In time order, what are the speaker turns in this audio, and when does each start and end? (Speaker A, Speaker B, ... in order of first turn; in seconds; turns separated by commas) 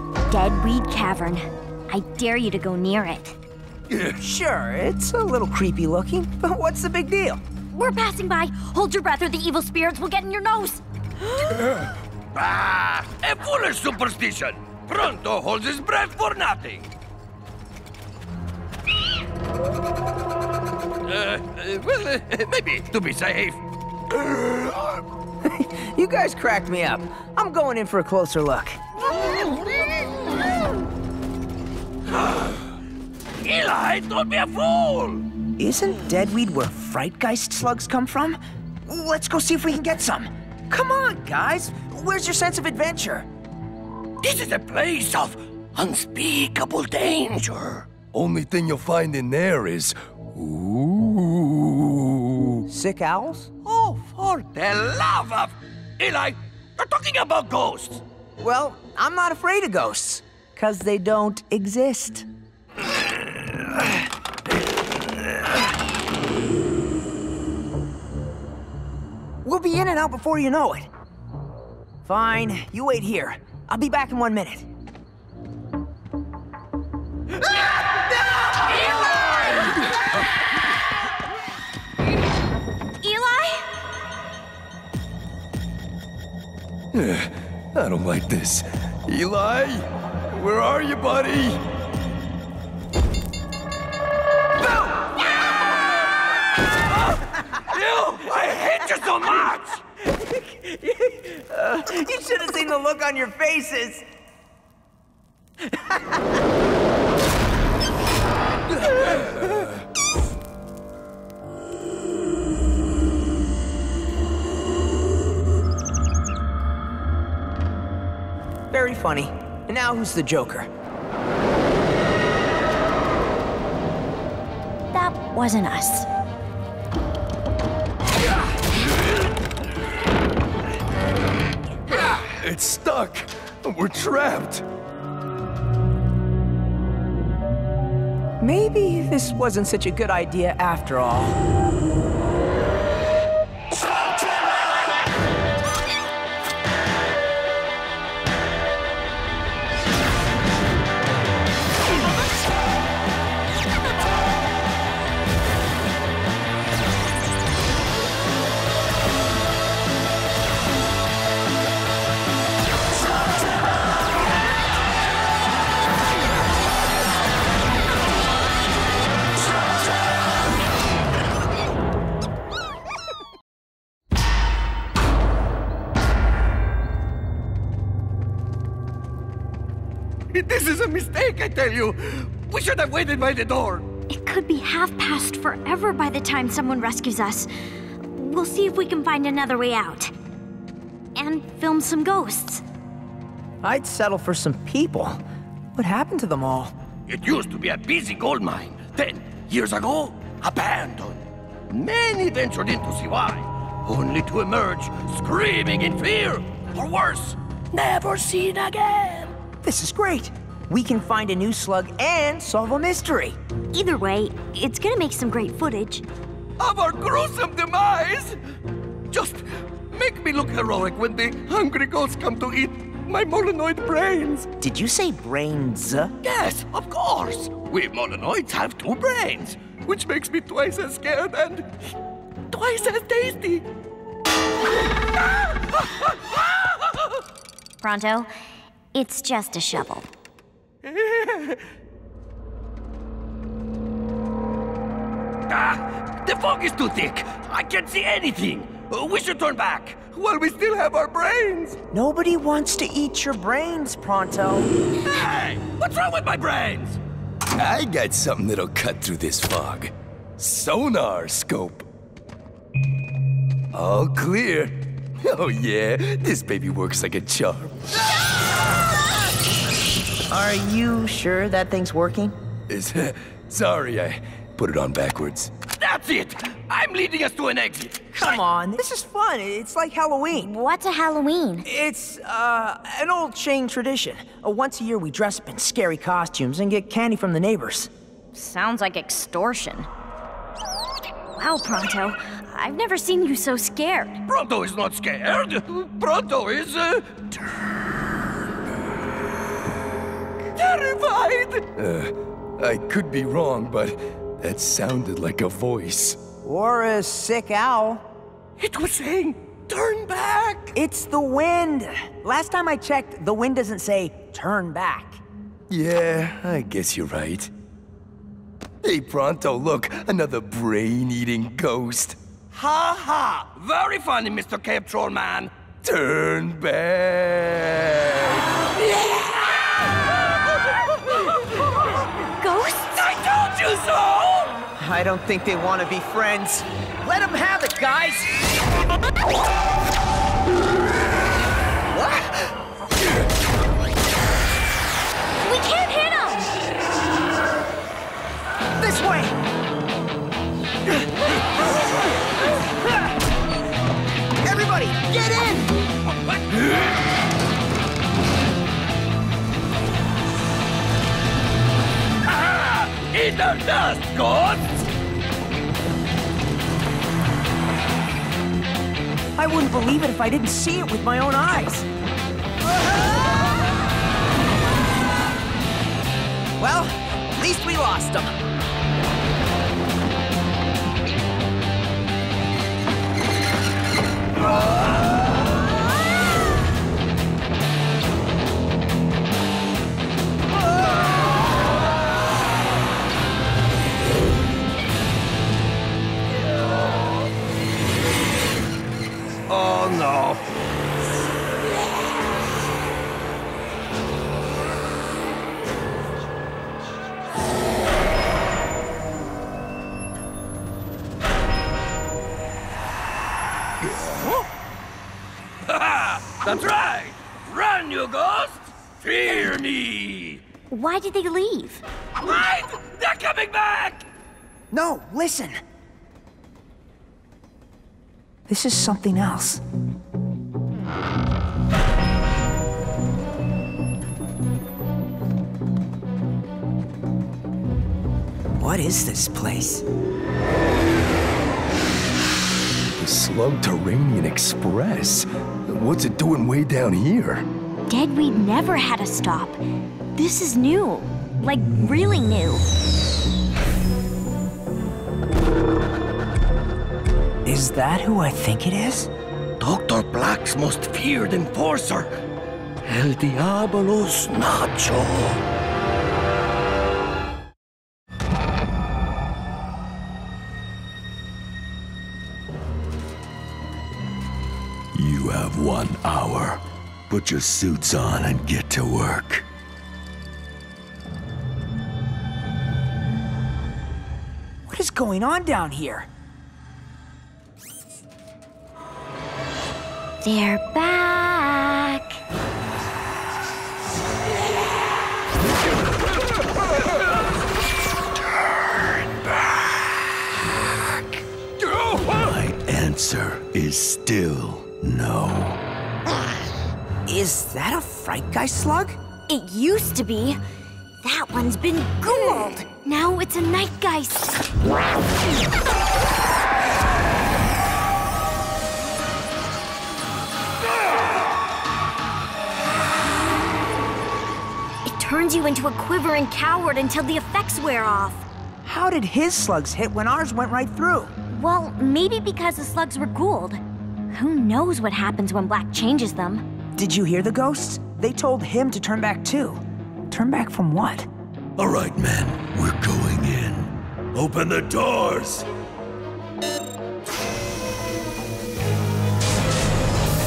Speaker A: 0.3-3.4, Speaker B: 3.9-4.2, Speaker C: 4.2-7.4, Speaker A: 7.7-10.8, Speaker D: 12.3-16.9, Speaker D: 21.0-23.6, Speaker D: 24.1-25.0, Speaker C: 25.4-28.8, Speaker D: 33.4-35.2, Speaker C: 35.6-43.3, Speaker D: 44.2-47.9, Speaker B: 48.1-52.6, Speaker C: 52.7-53.5, Speaker D: 53.6-58.0, Speaker C: 58.4-62.2, Speaker C: 69.4-70.9, Speaker C: 72.0-74.7, Speaker A: 83.0-83.7, Speaker B: 86.9-91.6, Speaker D: 96.6-99.8, Speaker C: 100.6-104.0, Speaker B: 109.2-109.6, Speaker C: 118.7-120.7, Speaker A: 124.9-126.1, Speaker B: 131.9-134.6, Speaker C: 138.4-141.4, Speaker D: 180.3-183.8, Speaker A: 184.1-187.5, Speaker A: 188.1-190.1, Speaker A: 191.2-192.6, Speaker C: 193.6-195.2, Speaker C: 195.7-196.7, Speaker D: 197.1-209.3, Speaker C: 209.6-213.3, Speaker A: 213.7-216.0, Speaker D: 216.6-218.4, Speaker D: 219.1-224.5, Speaker C: 224.6-226.1, Speaker D: 226.2-231.7, Speaker D: 232.5-233.6, Speaker D: 235.3-237.1, Speaker A: 237.8-238.3, Speaker A: 238.9-240.1, Speaker D: 240.9-241.6, Speaker D: 245.5-251.8, Speaker C: 251.9-254.7, Speaker D: 255.0-257.0, Speaker B: 257.5-261.9, Speaker B: 263.7-267.8, Speaker C: 270.3-272.3, Speaker B: 272.7-275.5, Speaker D: 275.8-278.2, Speaker C: 278.1-280.5, Speaker A: 280.4-281.6, Speaker C: 281.6-287.9, Speaker A: 288.3-289.9, Speaker A: 291.3-294.2, Speaker D: 294.3-297.4, Speaker D: 300.6-301.6, Speaker B: 301.8-306.2, Speaker C: 306.4-308.0, Speaker D: 308.6-310.8, Speaker C: 310.7-315.2, Speaker B: 315.7-317.5, Speaker B: 318.8-322.2, Speaker D: 322.5-325.5, Speaker B: 325.8-328.5, Speaker D: 328.9-330.1, Speaker D: 330.6-331.6, Speaker A: 332.4-333.1, Speaker D: 332.9-334.6, Speaker C: 334.8-338.3, Speaker C: 341.9-342.4, Speaker A: 345.4-346.5, Speaker C: 348.8-349.3, Speaker C: 354.4-355.7, Speaker D: 356.2-356.7, Speaker D: 362.2-364.7, Speaker C: 369.4-371.9, Speaker C: 376.6-378.3, Speaker D: 399.5-400.4, Speaker D: 415.6-420.4, Speaker A: 420.7-421.8, Speaker D: 422.2-424.0, Speaker C: 424.7-425.6, Speaker C: 428.5-429.6, Speaker C: 438.5-439.8, Speaker B: 442.9-447.4, Speaker A: 447.9-449.6, Speaker A: 450.1-452.6, Speaker C: 457.4-459.1, Speaker D: 459.6-462.2, Speaker D: 462.8-465.4, Speaker E: 474.9-479.4, Speaker C: 484.7-486.1, Speaker A: 490.2-492.2, Speaker E: 501.9-505.6, Speaker C: 507.1-509.0, Speaker A: 509.3-510.4, Speaker A: 511.0-514.4, Speaker A: 524.9-528.2, Speaker C: 528.6-531.1, Speaker A: 531.3-536.4, Speaker C: 536.8-541.1, Speaker E: 541.6-545.5